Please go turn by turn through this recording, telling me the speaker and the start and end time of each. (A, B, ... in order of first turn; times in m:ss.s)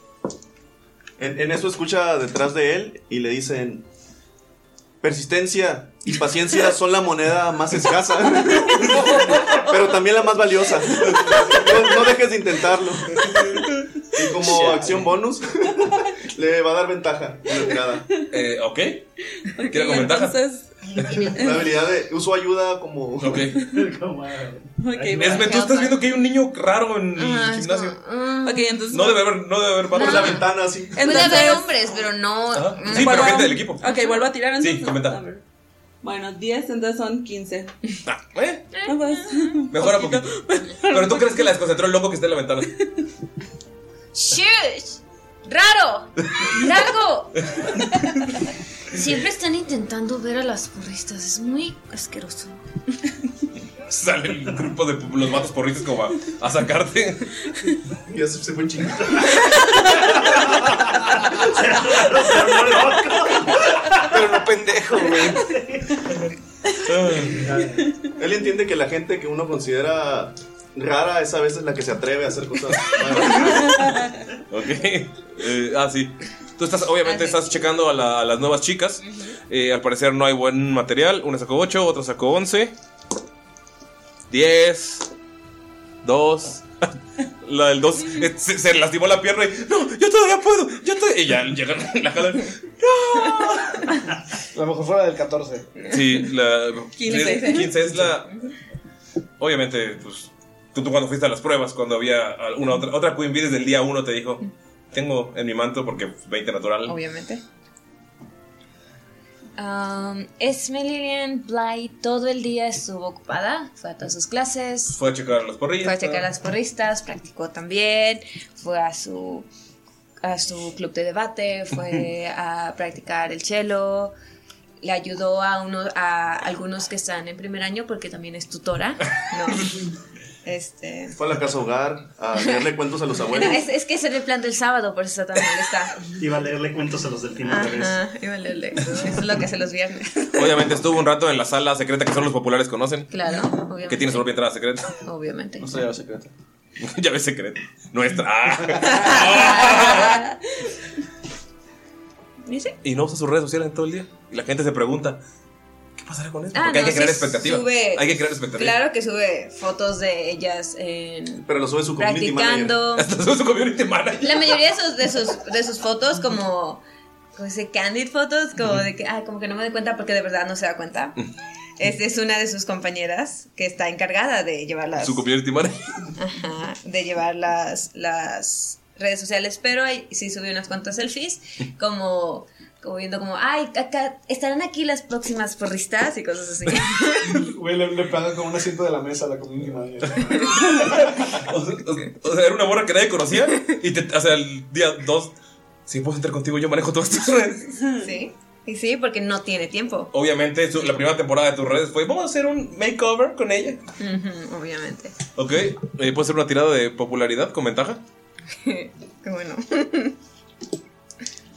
0:01.2-0:03.8 A
0:05.0-0:13.4 A
0:14.1-0:18.1 A
0:14.4-0:15.1 B
0:18.3-0:19.1 C
0:19.5-0:20.8 D
0:19.7-0:20.4 C
0:21.3-0:23.5 A
0:21.3-0:21.7 D
0:23.2-0:23.6 C
0:23.7-0:25.4 E
0:24.8-0:25.9 D
0:25.1-0:28.0 C
0:25.3-0:25.9 F
0:27.2-0:28.9 F
0:28.4-0:29.4 D
0:28.9-0:30.4 C
0:29.9-0:30.5 F
0:29.9-0:31.0 A
0:30.9-0:31.7 D
0:31.0-0:33.9 F
0:32.5-0:33.9 C
0:32.9-0:35.4 D
0:34.6-0:35.2 C
0:36.0-0:37.7 D
0:38.0-0:38.8 C
0:38.8-0:39.5 F
0:38.9-0:41.5 D
0:39.7-0:42.8 C
0:44.1-0:48.3 F
0:48.9-0:52.6 F
0:53.8-0:57.5 C
0:58.1-0:59.4 A
1:00.1-1:04.1 E
1:04.0-1:05.5 B
1:05.4-1:06.0 E
1:06.8-1:07.5 C
1:07.4-1:07.9 E
1:08.2-1:13.8 A
1:14.5-1:22.8 C
1:17.0-1:17.4 F
1:19.0-1:19.3 F
1:24.3-1:25.1 C
1:26.0-1:26.8 C
1:27.4-1:34.0 C
1:34.5-1:35.7 B
1:35.9-1:38.3 C
1:37.0-1:37.8 D
1:37.2-1:37.7 F
1:39.4-1:47.0 C
1:46.9-1:47.4 F
1:49.6-1:55.0 F
1:54.9-1:56.3 C
1:55.8-1:59.5 F
2:00.2-2:04.1 F
2:04.8-2:09.9 F
2:10.4-2:11.2 F
2:11.2-2:13.6 A
2:13.3-2:16.1 F
2:16.2-2:18.0 E
2:17.4-2:20.7 F
2:20.3-2:23.1 C
2:23.1-2:24.3 F
2:23.9-2:24.9 C
2:25.0-2:25.8 F
2:25.6-2:26.3 B
2:26.8-2:30.2 C
2:28.6-2:28.9 B
2:28.8-2:30.3 F
2:32.5-2:32.8 F
2:32.8-2:35.2 C
2:36.0-2:38.8 C
2:36.5-2:43.1 F
2:41.5-2:42.8 A
2:43.0-2:44.6 C
2:44.2-2:46.8 F
2:47.4-2:51.2 F
2:51.8-2:55.2 F
2:55.0-2:56.1 C
2:56.2-3:07.5 F
3:07.4-3:10.9 B
3:10.6-3:15.3 C
3:15.9-3:17.8 C
3:17.9-3:20.1 F
3:20.1-3:23.8 C
3:24.0-3:25.2 F
3:25.4-3:28.0 C
3:28.6-3:30.2 F